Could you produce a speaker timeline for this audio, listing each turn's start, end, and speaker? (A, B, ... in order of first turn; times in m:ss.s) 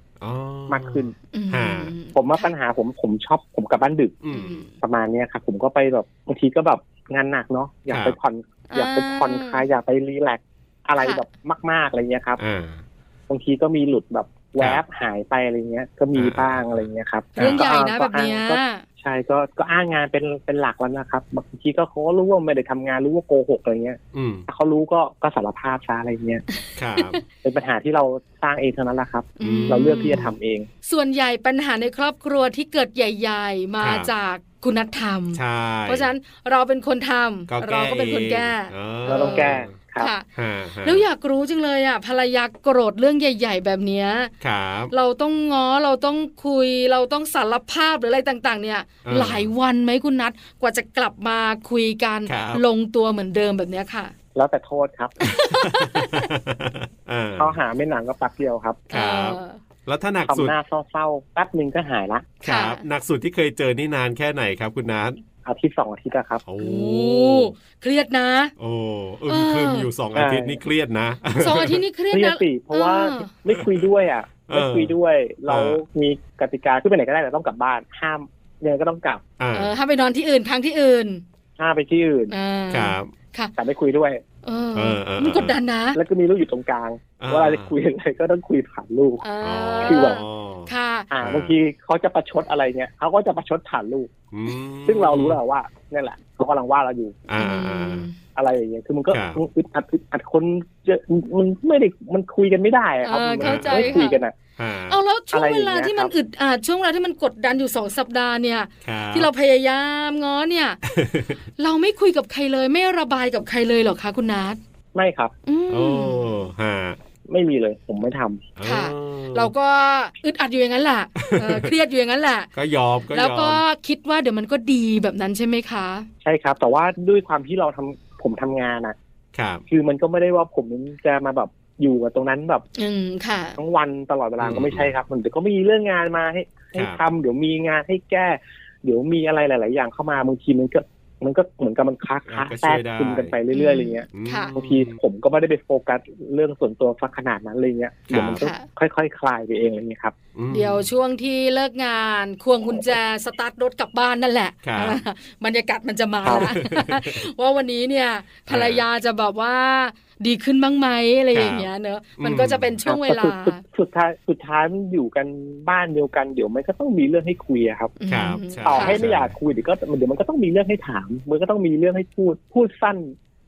0:00.2-0:01.9 A
0:00.7-0:01.1 B
0:01.3-0:02.5 C
0:02.1-0:04.2 B
0:04.2-0:04.6 A
0:04.3-0:04.7 C
0:04.8-0:12.4 B
0:07.9-0:08.2 A
0:08.7-0:09.6 C
0:11.0-0:11.2 C
0:12.4-0:12.8 A
0:13.3-0:26.4 B
0:16.1-0:17.7 A
0:17.4-0:18.8 C
0:24.1-0:24.5 A
0:26.8-0:27.2 A
0:27.0-0:27.2 C
0:27.4-0:30.7 B
0:29.4-0:30.3 C
0:29.4-0:30.3 A
0:30.8-0:40.3 C
0:33.8-0:34.1 A
0:35.3-0:36.1 A
0:37.5-0:39.7 A
0:39.1-0:40.1 B
0:40.4-0:41.0 A
0:40.8-0:44.3 C
0:44.4-0:44.9 A
0:44.9-0:54.1 C
0:49.0-0:49.5 A
0:52.3-0:52.6 A
0:54.4-0:55.2 B
0:55.2-0:56.3 C
0:55.7-0:57.6 A
0:57.4-0:58.8 B
0:58.9-0:59.6 C
0:58.9-1:00.6 A
1:00.3-1:02.3 B
1:02.4-1:05.2 A
1:02.4-1:02.8 C
1:05.4-1:06.4 B
1:06.4-1:07.5 A
1:06.6-1:08.5 C
1:08.6-1:11.8 A
1:09.3-1:09.9 C
1:10.1-1:10.6 B
1:11.4-1:13.3 C
1:12.1-1:19.2 B
1:13.5-1:13.9 A
1:14.5-1:14.9 A
1:15.5-1:15.8 A
1:19.4-1:19.7 A
1:19.5-1:21.2 C
1:21.6-1:22.3 B
1:22.3-1:23.5 C
1:22.7-1:23.1 A
1:23.6-1:24.2 B
1:24.4-1:26.0 C
1:24.8-1:25.6 A
1:26.0-1:29.2 B
1:27.2-1:27.7 A
1:29.2-1:31.1 C
1:29.4-1:31.6 A
1:29.8-1:30.2 B
1:31.1-1:34.1 B
1:34.3-1:35.4 A
1:34.9-1:37.3 B
1:37.3-1:38.1 A
1:37.4-1:38.2 C
1:38.4-1:44.4 B
1:39.1-1:39.4 A
1:43.0-1:44.2 C
1:43.4-1:44.0 A
1:44.6-1:45.0 A
1:44.9-1:50.8 C
1:45.3-1:46.1 B
1:48.8-1:49.3 A
1:50.9-1:51.4 A
1:51.6-1:54.6 C
1:54.9-1:55.3 B
1:55.5-1:56.5 C
1:55.7-1:57.0 A
1:57.3-1:58.5 B
1:58.6-1:59.5 A
1:58.6-2:02.5 C
2:01.2-2:01.7 A
2:02.5-2:03.6 A
2:03.1-2:06.1 C
2:06.2-2:09.0 B
2:09.3-2:09.6 A
2:09.7-2:12.6 B
2:12.8-2:13.6 C
2:13.6-2:30.2 B
2:14.4-2:14.9 A
2:16.7-2:17.0 A
2:22.3-2:23.4 A
2:23.5-2:24.6 C
2:24.1-2:25.0 A
2:28.1-2:28.4 A
2:28.3-2:28.7 C
2:30.4-2:30.9 A
2:30.5-2:43.6 C
2:34.6-2:35.0 A
2:36.2-2:36.5 B
2:36.3-2:37.2 A
2:38.5-2:38.8 A
2:41.3-2:42.8 A
2:42.9-2:48.0 B
2:48.0-2:49.0 C
2:48.1-2:49.3 A
2:48.6-2:53.2 B